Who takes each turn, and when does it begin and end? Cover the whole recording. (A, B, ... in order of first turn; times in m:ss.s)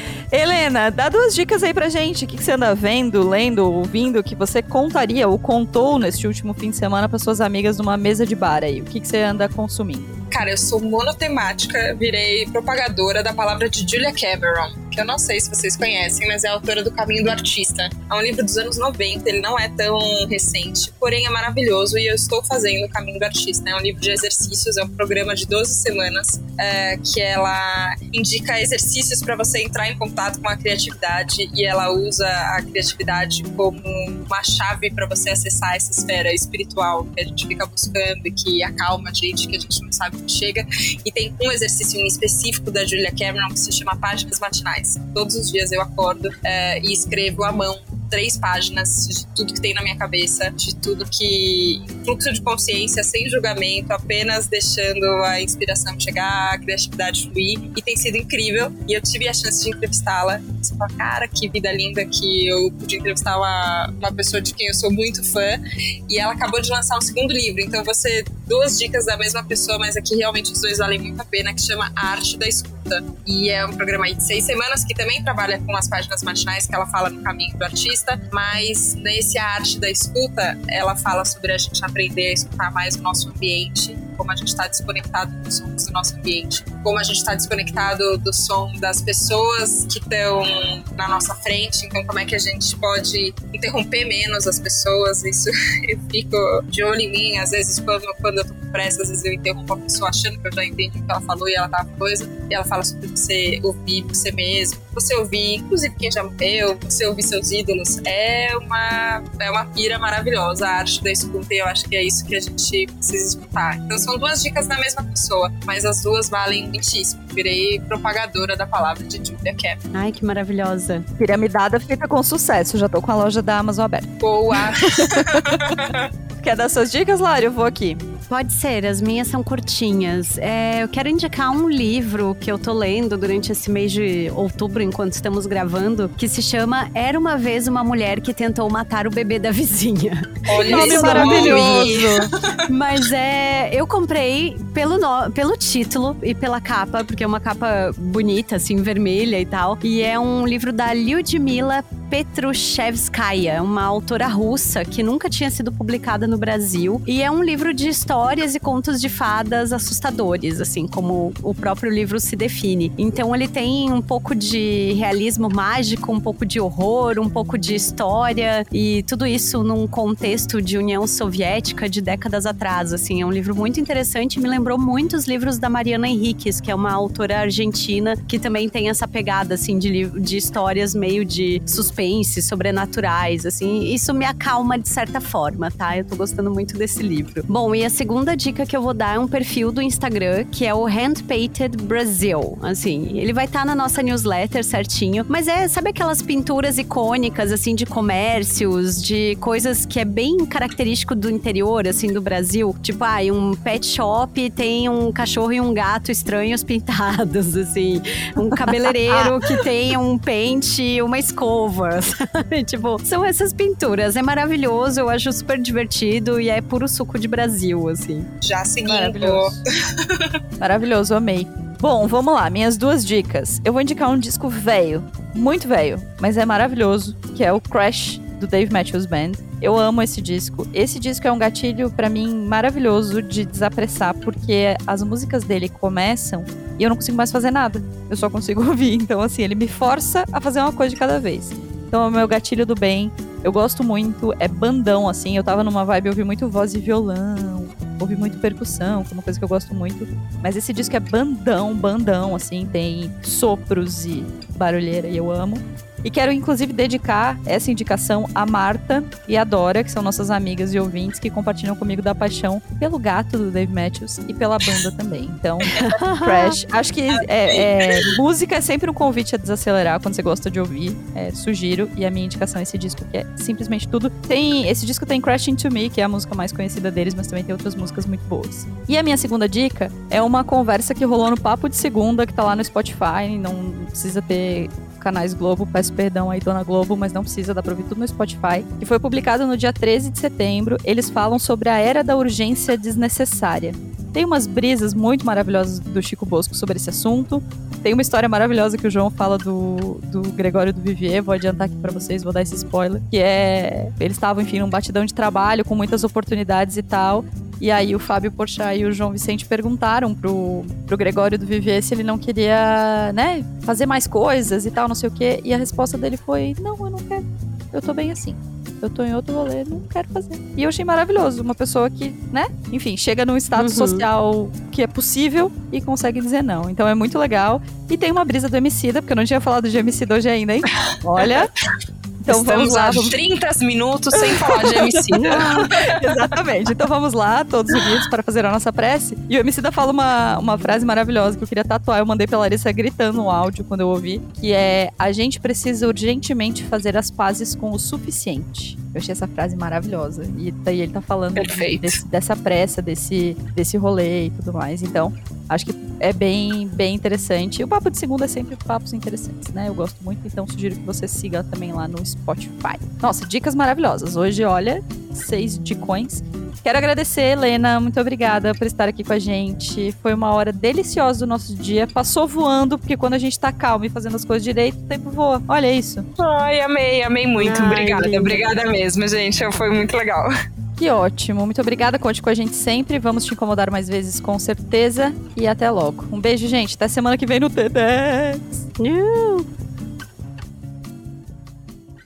0:00.3-0:10.2 A
0:10.3-1:59.8 B
1:59.9-2:01.1 C
2:01.2-2:08.0 A
2:04.2-2:06.1 B
2:08.3-2:22.0 C
2:20.5-2:22.2 B
2:20.7-2:22.3 A
2:22.7-3:38.3 C
3:38.4-3:40.3 B
3:38.8-3:39.6 A
3:40.6-5:31.5 A
4:25.7-4:26.6 C
4:27.1-4:28.1 B
5:23.6-5:24.1 C
5:32.2-5:33.2 A
5:32.3-5:36.1 B
5:34.2-6:16.1 A
5:51.4-5:52.0 B
6:16.2-6:20.3 B
6:17.4-6:18.5 C
6:20.8-6:28.6 A
6:28.8-6:29.5 C